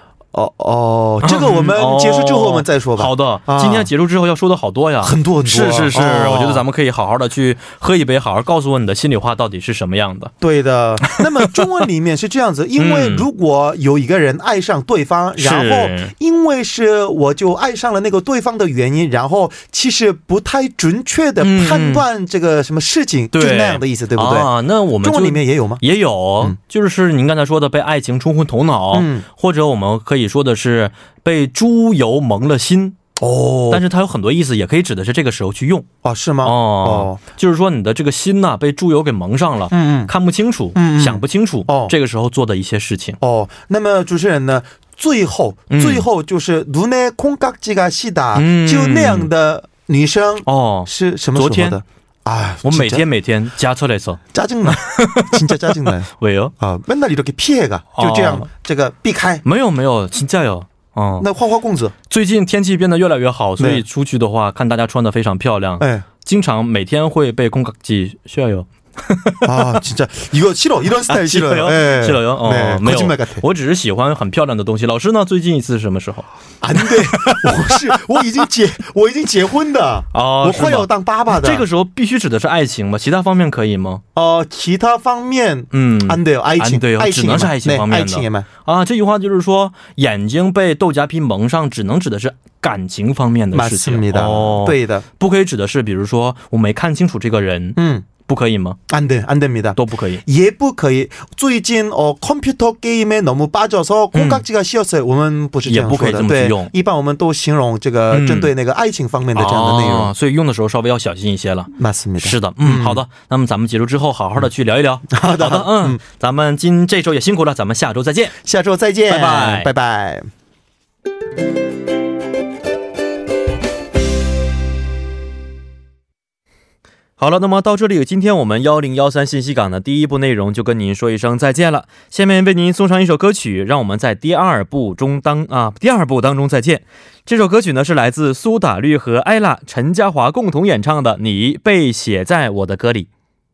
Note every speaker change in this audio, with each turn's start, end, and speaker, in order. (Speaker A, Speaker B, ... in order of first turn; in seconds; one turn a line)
Speaker A: 0.3-3.9
Speaker B: 1.2-10.3
Speaker A: 5.0-6.7
Speaker A: 10.4-24.5
Speaker B: 11.0-11.6
Speaker B: 12.8-13.3
Speaker B: 15.4-16.1
Speaker B: 21.4-22.1
Speaker B: 23.3-33.0
Speaker A: 25.0-25.8
Speaker A: 28.9-29.2
Speaker A: 33.2-33.8
Speaker B: 33.7-35.9
Speaker A: 36.0-37.2
Speaker B: 36.4-43.2
Speaker A: 39.7-40.1
Speaker A: 40.7-41.9
Speaker A: 43.2-53.0
Speaker B: 45.7-46.0
Speaker B: 48.3-49.3
Speaker B: 50.5-51.8
Speaker B: 52.6-56.5
Speaker A: 54.3-56.1
Speaker A: 56.6-59.4
Speaker B: 58.0-58.5
Speaker B: 59.4-61.3
Speaker A: 61.2-61.9
Speaker B: 62.1-69.8
Speaker A: 63.6-63.8
Speaker A: 65.8-66.0
Speaker A: 69.4-73.4
Speaker B: 71.1-77.8
Speaker A: 76.6-81.7
Speaker B: 80.1-84.0
Speaker A: 84.1-88.5
Speaker B: 85.7-98.8
Speaker A: 93.5-95.0
Speaker A: 97.8-98.1
Speaker A: 98.9-110.1
Speaker B: 99.8-100.2
Speaker B: 104.1-104.4
Speaker B: 105.6-106.7
Speaker B: 108.1-108.5
Speaker B: 109.3-118.3
Speaker A: 111.8-113.0
Speaker A: 115.1-116.0
Speaker A: 118.4-120.3
Speaker B: 119.1-119.7
Speaker B: 127.2-143.1